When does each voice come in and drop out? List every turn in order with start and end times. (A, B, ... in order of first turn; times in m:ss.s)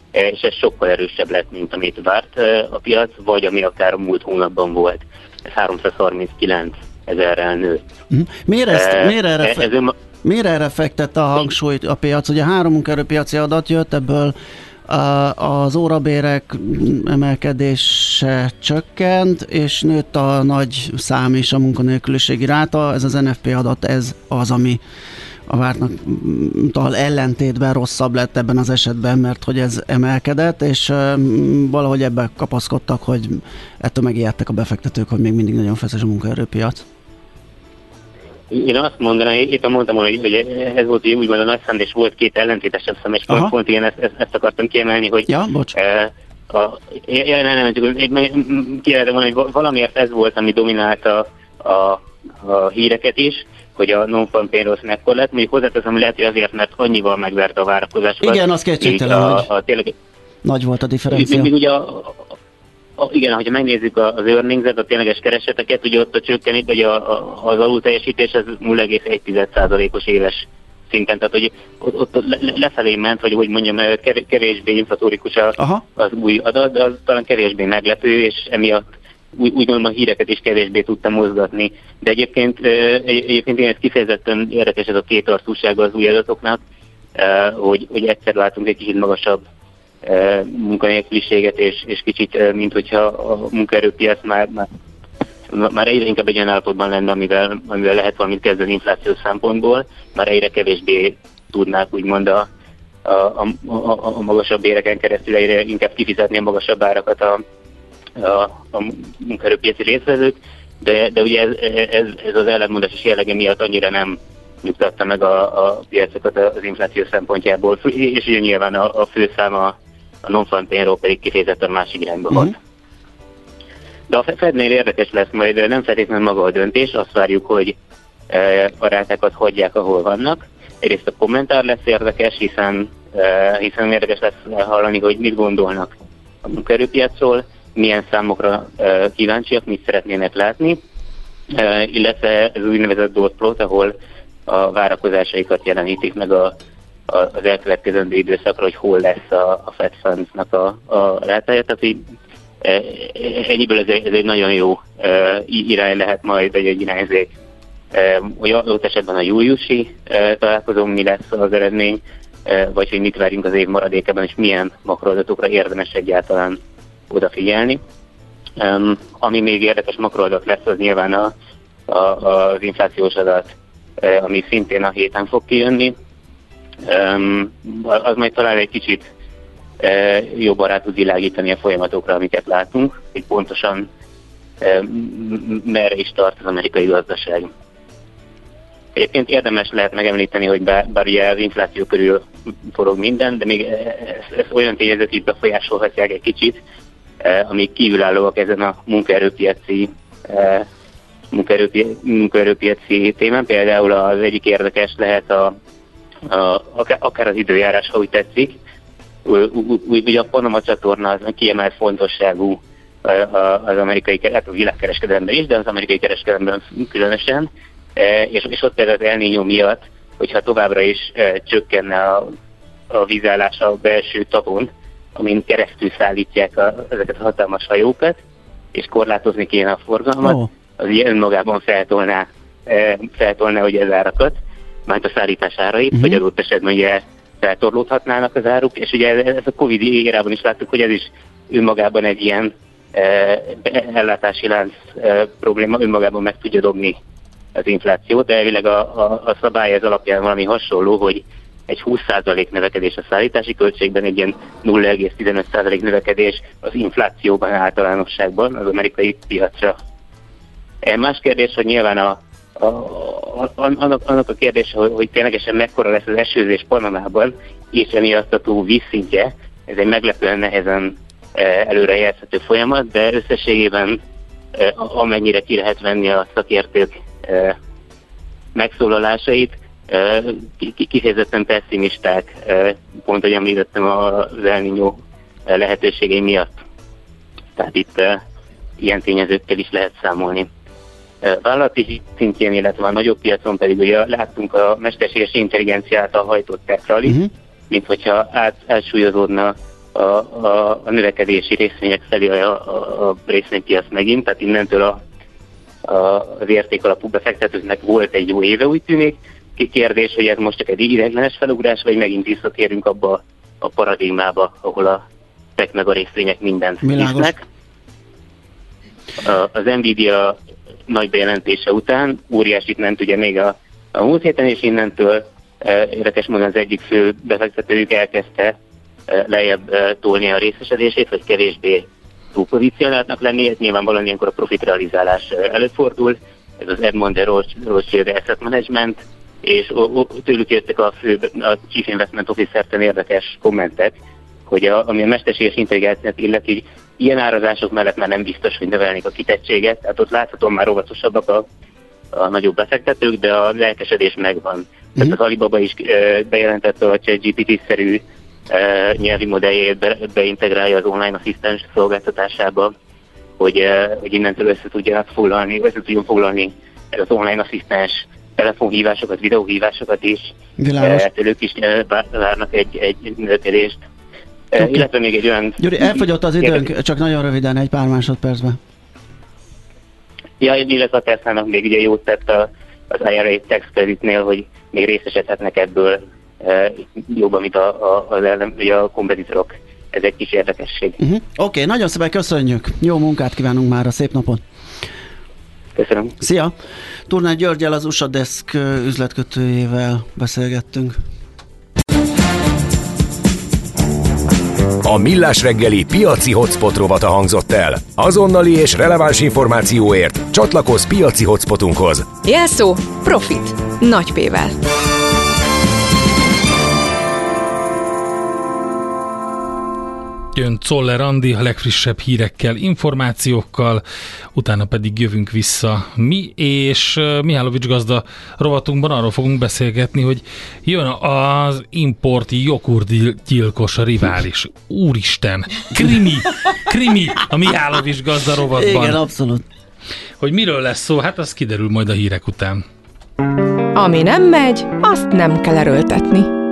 0:00.1-0:07.9 A
0:08.1-0:09.7 B
0:08.7-0:10.0 A
0:10.2-0:14.4 B
0:14.9-0:24.8 B
0:25.5-0:36.8 B
0:38.5-1:00.0 A
0:45.3-0:45.7 B
0:58.2-0:59.5 B
1:00.4-1:01.5 B
1:01.1-1:02.3 A
1:03.0-1:26.6 A
1:15.6-1:15.8 B
1:27.2-1:29.4 A
1:30.0-1:34.7 A
1:35.5-1:42.5 A
1:43.0-1:47.4 A
1:48.2-2:02.6 A
2:04.1-2:07.8 A
2:08.3-2:15.9 A
2:16.4-2:20.8 A
2:21.5-2:24.0 A
2:24.5-2:26.5 A
2:27.1-2:32.0 A
2:32.6-2:37.3 A
2:37.9-2:47.8 A
2:48.6-2:51.3 A
2:51.9-2:56.0 A
2:56.8-2:59.1 A
2:59.8-3:03.9 A
3:04.6-3:07.5 A
3:09.0-3:16.6 A
3:17.2-3:20.7 A
3:21.3-3:25.6 A
3:26.3-3:28.6 A
3:29.3-3:42.3 A
3:42.9-3:48.2 A
3:48.7-4:07.0 A
3:50.2-3:50.5 B
3:55.9-3:56.2 B
4:07.6-4:19.8 A
4:20.8-4:34.0 A
4:34.5-4:37.6 A
4:38.6-4:46.6 A
4:47.6-4:48.2 A
4:48.8-4:50.5 A
4:51.2-5:05.0 A
5:05.8-5:15.0 A
5:15.6-5:17.4 A
5:16.8-5:17.3 B
5:19.2-5:20.4 A
5:20.9-5:28.6 A
5:29.1-5:51.5 A
5:52.1-6:02.7 A
6:03.4-6:13.8 A
6:10.6-6:11.1 B
6:14.5-6:16.7 A
6:14.6-6:14.8 B
6:15.6-6:18.6 B
6:20.4-6:31.0 A
6:31.0-6:34.4 B
6:35.8-6:36.2 A
6:36.2-6:36.5 B
6:37.1-6:41.0 B
6:44.8-6:52.1 C
6:52.2-6:54.6 D
7:00.4-7:03.8 E
7:04.4-7:19.0 E
7:18.5-7:19.4 B
7:20.2-7:22.6 E
7:23.8-7:26.3 D